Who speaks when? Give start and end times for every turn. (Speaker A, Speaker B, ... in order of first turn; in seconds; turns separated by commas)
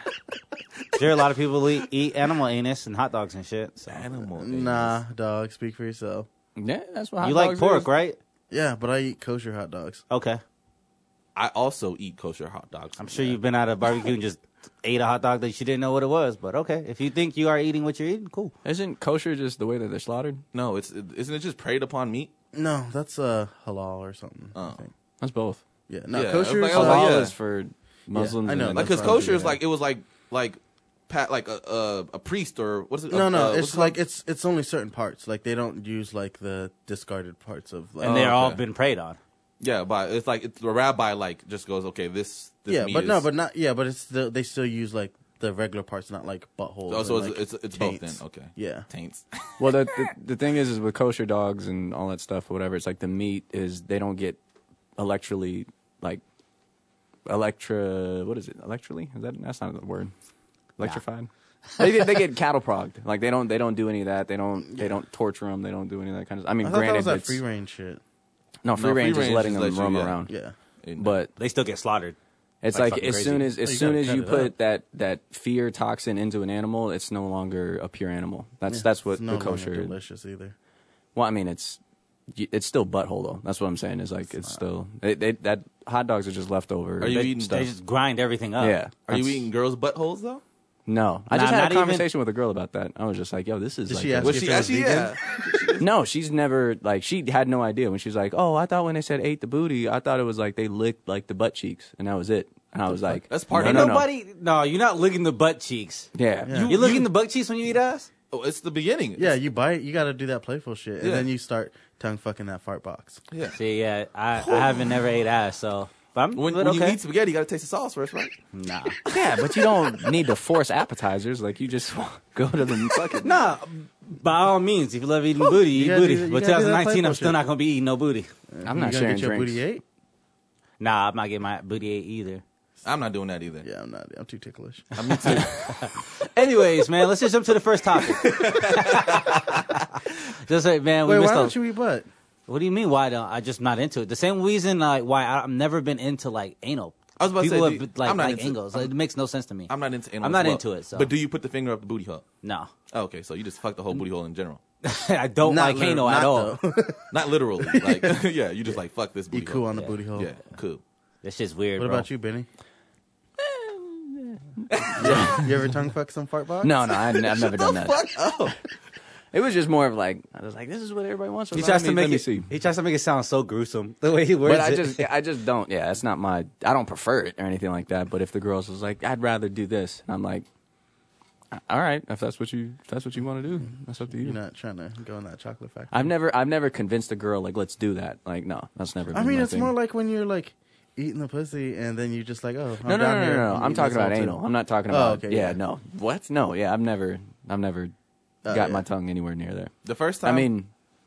Speaker A: 0.9-4.0, Speaker B: 3.9-5.0, Speaker C: 4.4-6.3, Speaker D: 6.5-7.9, Speaker A: 7.2-8.2, Speaker C: 8.5-10.0, Speaker A: 10.1-10.4, Speaker B: 11.3-13.4, Speaker A: 13.0-18.5, Speaker D: 18.6-20.4, Speaker B: 20.5-22.3, Speaker C: 22.5-24.9, Speaker B: 24.5-24.8, Speaker D: 25.2-25.6, Speaker C: 25.9-27.2, Speaker B: 26.1-27.3, Speaker D: 26.7-29.2, Speaker C: 28.1-29.6, Speaker B: 28.7-34.0, Speaker C: 33.1-38.2, Speaker A: 38.0-39.2, Speaker B: 38.0-38.6, Speaker B: 39.6-43.2, Speaker C: 42.7-48.9, Speaker B: 46.9-50.1, Speaker D: 49.6-54.4, Speaker D: 55.0-56.2, Speaker D: 57.2-60.1, Speaker D: 60.8-67.4, Speaker C: 66.6-68.0, Speaker D: 68.6-70.3, Speaker B: 68.8-70.2, Speaker C: 70.3-70.5, Speaker B: 70.8-71.2, Speaker D: 71.0-71.3, Speaker A: 71.3-72.2, Speaker D: 72.6-79.9, Speaker A: 72.8-73.3, Speaker C: 72.8-74.5, Speaker C: 78.7-80.5, Speaker D: 81.1-81.8, Speaker D: 82.3-87.7, Speaker B: 87.0-87.7, Speaker A: 87.1-88.8, Speaker D: 88.6-89.5, Speaker B: 89.1-90.4, Speaker D: 90.9-94.7, Speaker A: 91.3-92.1, Speaker C: 93.9-95.2, Speaker B: 94.2-95.8, Speaker D: 95.8-104.1, Speaker B: 103.1-104.0, Speaker A: 103.5-106.1, Speaker D: 106.1-106.6, Speaker C: 106.5-106.7, Speaker B: 106.5-107.1, Speaker A: 106.6-108.1, Speaker B: 108.3-109.4, Speaker C: 109.2-113.2, Speaker B: 111.0-111.3, Speaker B: 113.3-113.6, Speaker A: 113.5-117.0, Speaker B: 114.4-115.0, Speaker B: 116.3-118.4, Speaker A: 118.5-119.0, Speaker D: 119.1-123.3, Speaker B: 119.1-120.1, Speaker A: 123.2-128.3, Speaker C: 125.7-127.4, Speaker C: 128.5-129.8, Speaker D: 128.6-129.6, Speaker A: 130.8-132.4, Speaker B: 132.8-133.7, Speaker C: 133.6-135.4, Speaker B: 134.9-135.9, Speaker A: 135.2-141.6, Speaker B: 138.2-139.8, Speaker C: 141.0-142.1, Speaker A: 142.5-151.1, Speaker B: 147.2-148.9, Speaker B: 149.7-152.2, Speaker A: 152.4-152.7, Speaker B: 152.9-154.6, Speaker A: 154.8-156.6, Speaker C: 155.4-158.2, Speaker B: 157.1-160.8, Speaker C: 159.3-160.3, Speaker A: 161.2-162.1, Speaker C: 161.8-162.5, Speaker D: 163.4-165.5, Speaker C: 164.9-166.8, Speaker D: 166.6-168.0, Speaker B: 166.9-168.6, Speaker D: 169.3-172.5, Speaker A: 171.5-175.1, Speaker D: 174.4-180.4, Speaker D: 181.5-184.4, Speaker C: 184.1-186.1, Speaker D: 185.9-189.7, Speaker C: 189.1-195.6, Speaker D: 192.8-197.9, Speaker C: 198.4-198.8, Speaker D: 198.5-199.7, Speaker B: 199.8-200.5, Speaker D: 200.2-200.7